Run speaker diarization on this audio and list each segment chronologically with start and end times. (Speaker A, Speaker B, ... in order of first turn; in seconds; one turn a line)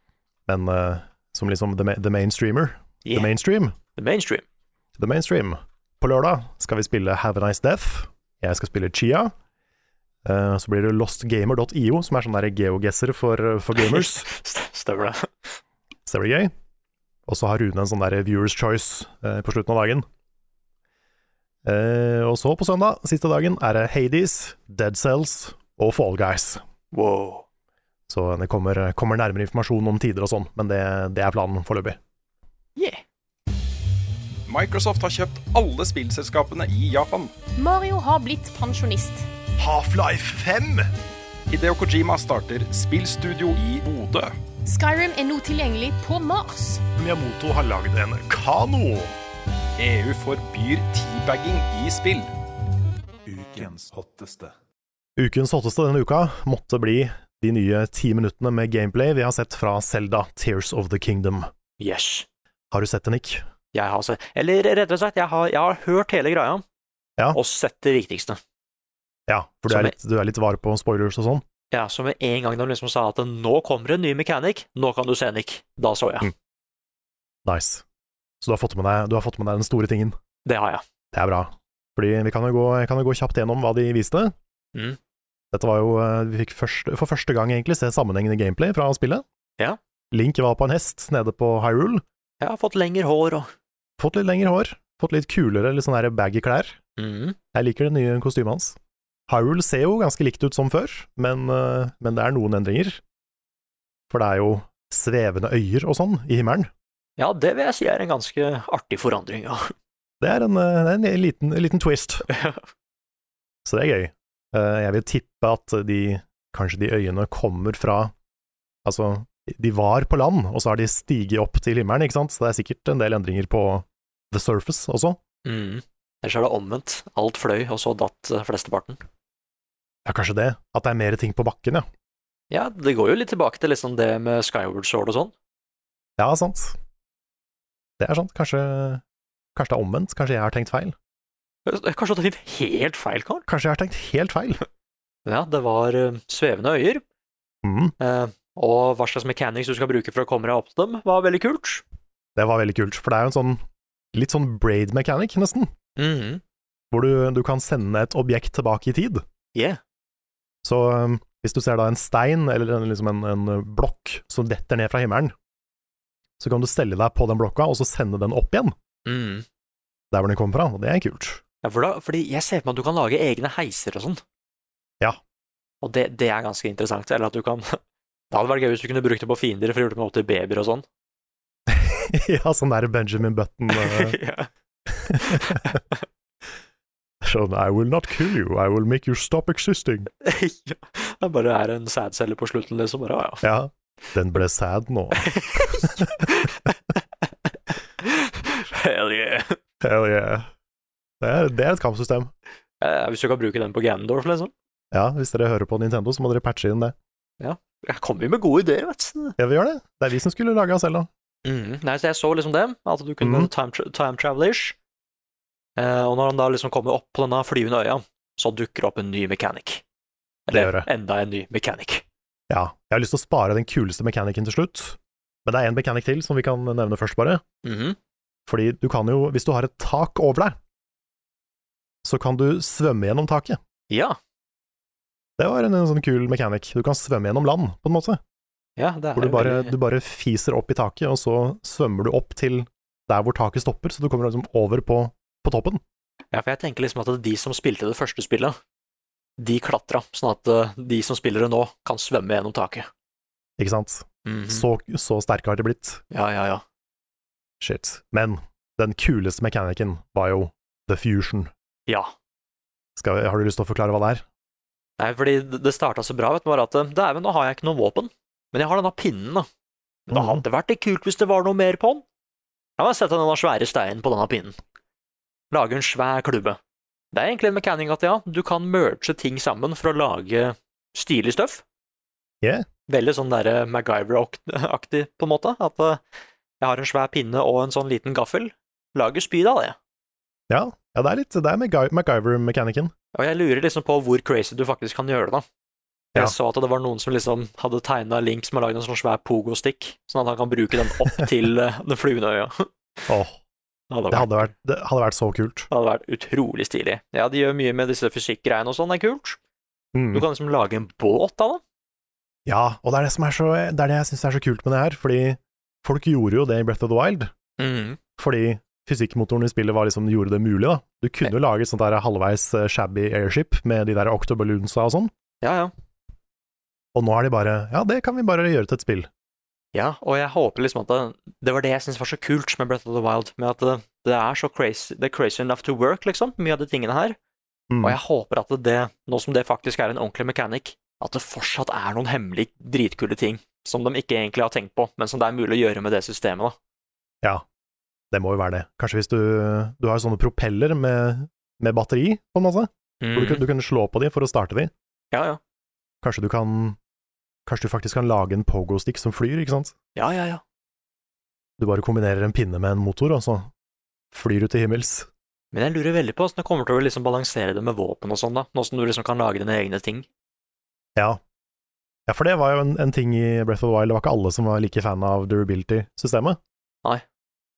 Speaker A: 0.5-3.8
Speaker B: 3.0-3.3
Speaker B: 4.0-4.4
Speaker A: 5.0-9.3
Speaker A: 10.2-14.3
Speaker B: 13.8-15.5
Speaker A: 16.1-16.5
Speaker A: 17.3-20.1
Speaker A: 21.6-26.6
Speaker B: 26.9-27.4
Speaker A: 28.1-32.0
Speaker B: 32.8-33.0
Speaker C: 34.5-37.3
Speaker D: 37.5-39.3
Speaker A: 39.6-40.9
Speaker C: 41.5-44.3
Speaker D: 44.6-46.8
Speaker A: 47.0-49.1
Speaker C: 49.8-52.3
Speaker C: 53.5-53.8
Speaker A: 55.1-61.5
Speaker B: 61.8-62.3
Speaker A: 62.7-63.4
Speaker B: 63.7-66.6
Speaker B: 67.3-68.4
Speaker A: 69.3-71.4
Speaker B: 69.7-69.9
Speaker B: 71.7-76.3
Speaker A: 77.5-77.8
Speaker A: 78.4-80.2
Speaker B: 80.4-80.8
Speaker A: 81.1-84.3
Speaker A: 85.5-89.2
Speaker A: 90.1-92.0
Speaker B: 92.4-93.5
Speaker A: 94.0-96.8
Speaker B: 97.0-97.4
Speaker A: 97.5-98.8
Speaker A: 99.3-103.0
Speaker A: 104.1-106.7
Speaker B: 107.2-109.7
Speaker A: 110.2-112.3
Speaker B: 112.3-112.6
Speaker A: 113.6-118.1
Speaker A: 118.8-125.2
Speaker B: 125.4-129.0
Speaker A: 130.0-131.9
Speaker B: 132.5-135.3
Speaker A: 136.2-136.8
Speaker A: 138.0-139.0
Speaker A: 139.5-140.9
Speaker B: 141.7-143.4
Speaker A: 143.5-144.6
Speaker B: 145.2-147.0
Speaker A: 147.6-147.9
Speaker B: 148.0-151.8
Speaker A: 152.3-153.6
Speaker A: 154.1-155.7
Speaker B: 155.9-156.4
Speaker A: 156.9-159.2
Speaker B: 159.5-159.8
Speaker A: 160.6-165.3
Speaker A: 166.4-168.7
Speaker B: 169.1-169.4
Speaker A: 170.1-171.4
Speaker B: 171.6-174.2
Speaker B: 175.8-177.8
Speaker B: 178.3-180.8
Speaker A: 181.7-184.2
Speaker B: 183.7-184.5
Speaker A: 184.9-185.6
Speaker B: 185.2-186.0
Speaker A: 187.2-190.1
Speaker B: 190.2-193.4
Speaker A: 193.4-196.2
Speaker B: 195.2-196.8
Speaker B: 198.0-199.6
Speaker A: 199.8-200.5
Speaker A: 201.2-202.3
Speaker B: 202.8-204.5
Speaker A: 204.9-206.9
Speaker B: 207.4-209.3
Speaker A: 209.4-211.1
Speaker B: 211.4-214.8
Speaker A: 213.2-213.5
Speaker B: 215.8-219.8
Speaker B: 220.5-222.0
Speaker A: 220.5-220.9
Speaker A: 222.5-227.4
Speaker B: 227.6-228.0
Speaker A: 228.5-230.6
Speaker A: 232.0-233.6
Speaker B: 233.9-234.2
Speaker A: 235.4-238.2
Speaker B: 238.8-239.8
Speaker A: 239.2-245.8
Speaker B: 246.3-248.6
Speaker B: 249.4-252.9
Speaker A: 253.6-256.0
Speaker B: 254.2-254.7
Speaker B: 256.1-256.6
Speaker A: 257.6-261.5
Speaker B: 261.9-262.1
Speaker A: 262.9-264.2
Speaker B: 265.0-269.5
Speaker B: 270.1-272.0
Speaker A: 270.1-270.4
Speaker B: 272.8-274.6
Speaker B: 275.5-276.6
Speaker B: 277.1-281.6
Speaker B: 282.9-286.0
Speaker B: 286.6-289.8
Speaker A: 290.5-292.9
Speaker B: 293.1-295.4
Speaker B: 296.1-302.7
Speaker A: 303.1-303.4
Speaker B: 303.9-304.5
Speaker A: 304.1-305.7
Speaker B: 305.7-309.4
Speaker A: 309.9-310.2
Speaker B: 310.1-311.6
Speaker A: 312.4-317.3
Speaker B: 317.6-318.0
Speaker A: 318.2-325.1
Speaker B: 325.4-325.7
Speaker A: 326.9-329.1
Speaker B: 329.7-337.2
Speaker A: 337.7-338.0
Speaker B: 337.8-346.6
Speaker A: 348.1-354.7
Speaker B: 353.0-353.4
Speaker B: 355.1-355.4
Speaker A: 356.0-356.8
Speaker A: 357.4-359.7
Speaker B: 359.9-360.4
Speaker A: 361.6-363.5
Speaker A: 364.1-365.1
Speaker B: 365.5-370.1
Speaker A: 372.1-376.4